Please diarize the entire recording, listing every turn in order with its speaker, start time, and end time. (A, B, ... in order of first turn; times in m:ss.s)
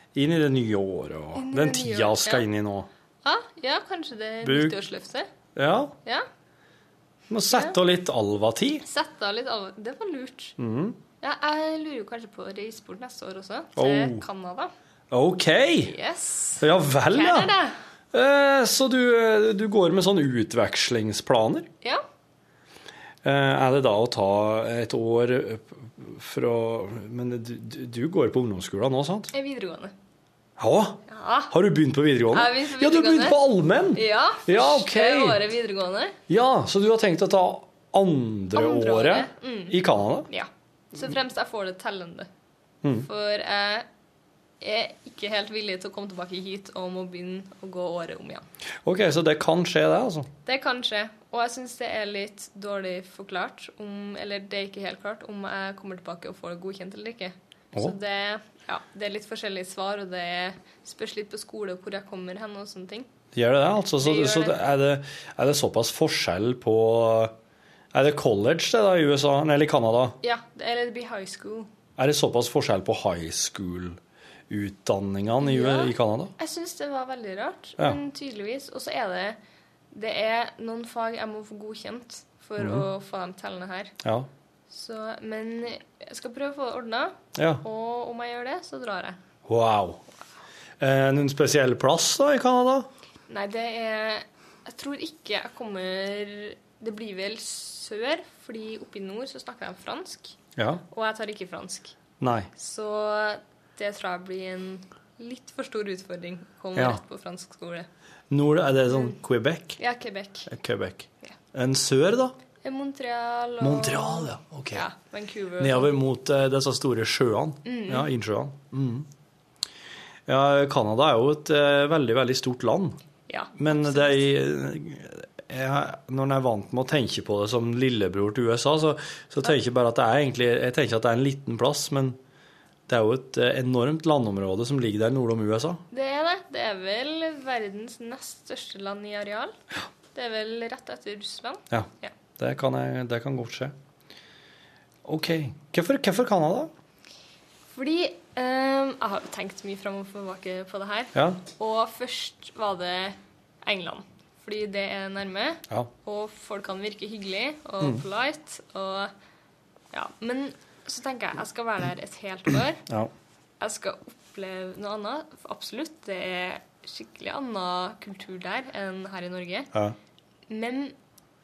0:00.1-0:02.9 A
0:01.3-0:02.4 B
0:03.2-0:05.3 B
0:04.4-0:04.7 A
0:05.6-0:05.9 A
0:07.3-0:08.8 A
0:08.8-0:10.5 B
0:10.6-0:11.0 A
0:11.2-0:14.7 B
0:13.8-0:14.2 A
0:15.1-0:15.9 A
0:15.8-0:17.8 B
0:16.6-0:17.5 A
0:18.1-0:21.7 A
0:23.2-0:29.3 A
0:29.3-0:29.9 B
0:30.6-0:35.4 A
0:31.1-0:31.5 B
0:32.3-0:33.4 B
0:33.9-0:36.2 B
0:36.3-0:40.3 A
0:38.5-0:42.3 B
0:43.0-0:43.9 B
0:44.6-0:48.4 B
0:48.8-0:50.3 A
0:50.4-1:03.1 B
1:03.3-1:07.3 A
1:04.0-1:04.6 B
1:07.9-1:10.2 A
1:10.2-1:11.7 B
1:12.0-1:16.3 A
1:15.4-1:19.4 B
1:19.9-1:23.9 B
1:22.6-1:22.8 A
1:24.0-1:24.3 A
1:24.7-1:29.2 B
1:27.4-1:27.6 A
1:29.5-1:30.0 A
1:30.8-1:32.9 A
1:33.3-1:40.4 B
1:40.6-1:40.8 A
1:40.9-1:42.0 B
1:42.2-1:42.5 A
1:42.6-1:47.9 B
1:46.7-1:47.0 A
1:48.3-1:49.8 A
1:48.9-1:49.2 B
1:49.8-1:50.5 B
1:50.5-1:52.4 A
1:52.6-1:55.9 B
1:53.6-1:54.9 A
1:55.6-1:59.1 A
1:57.6-1:58.1 B
2:00.3-2:03.0 A
2:03.3-2:04.2 B
2:03.6-2:12.2 A
2:12.9-2:15.8 A
2:15.9-2:19.6 B
2:20.1-2:22.1 B
2:21.7-2:23.7 A
2:25.0-2:26.7 A
2:27.7-2:39.1 B
2:31.1-2:31.4 A
2:39.9-2:42.8 B
2:43.6-2:49.7 B
2:50.5-2:50.9 B